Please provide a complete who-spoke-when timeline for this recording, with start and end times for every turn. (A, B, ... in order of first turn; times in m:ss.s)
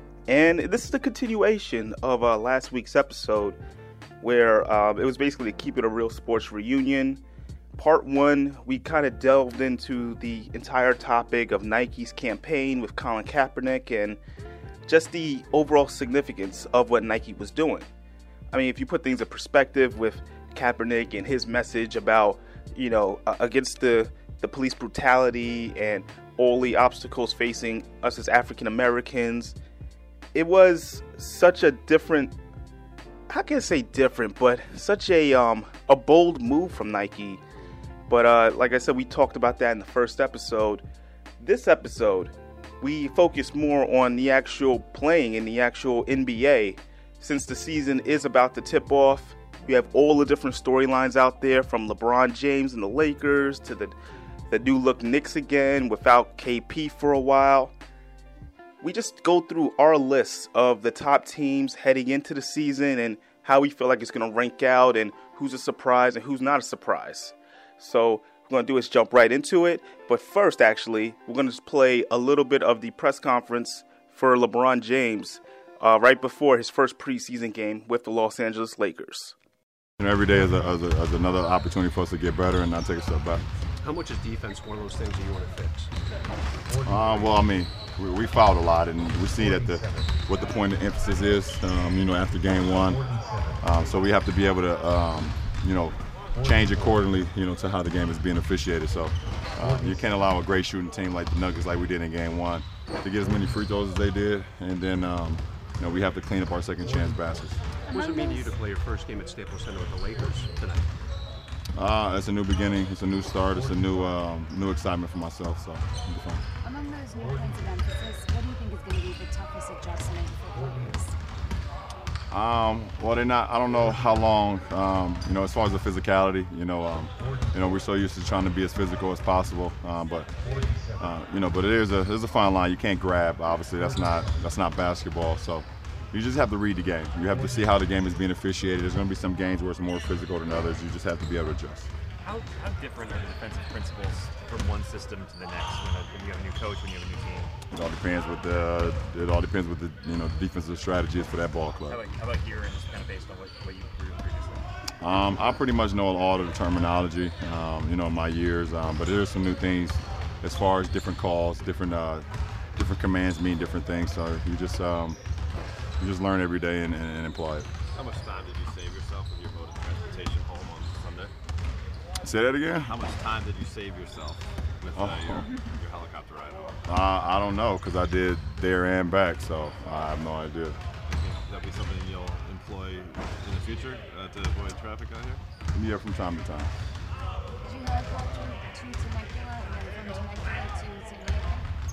0:00.3-0:03.6 A
0:04.2-0:07.2 A
0:07.8-0:14.2 A
0:14.9-0:17.9 A
0:18.5-0:29.6 A
0:30.3-0:32.4 A
0:33.3-0:37.4 A
0:38.1-0:40.8 A
0:41.4-0:54.0 A
0:54.5-0:57.7 A
0:58.8-1:19.4 A
1:20.0-1:23.5 B
1:23.8-1:25.9 C
1:26.8-1:33.1 B
1:33.6-1:47.6 B
1:47.9-1:50.9 C
1:47.9-1:48.6 D
1:51.7-1:56.4 B
1:56.6-2:01.2 D
2:02.3-2:10.3 B
2:11.0-2:21.9 B
2:22.2-2:27.5 E
2:27.7-2:32.1 B
2:31.9-2:34.7 E
2:35.0-2:45.2 B
2:46.0-2:47.7 B
2:47.9-2:51.3 F
2:52.2-2:53.0 B
2:52.9-2:56.8 F
2:55.0-2:55.5 B
2:56.9-3:00.8 B
3:01.1-3:05.4 F
3:05.7-3:06.7 B
3:07.6-3:11.7 D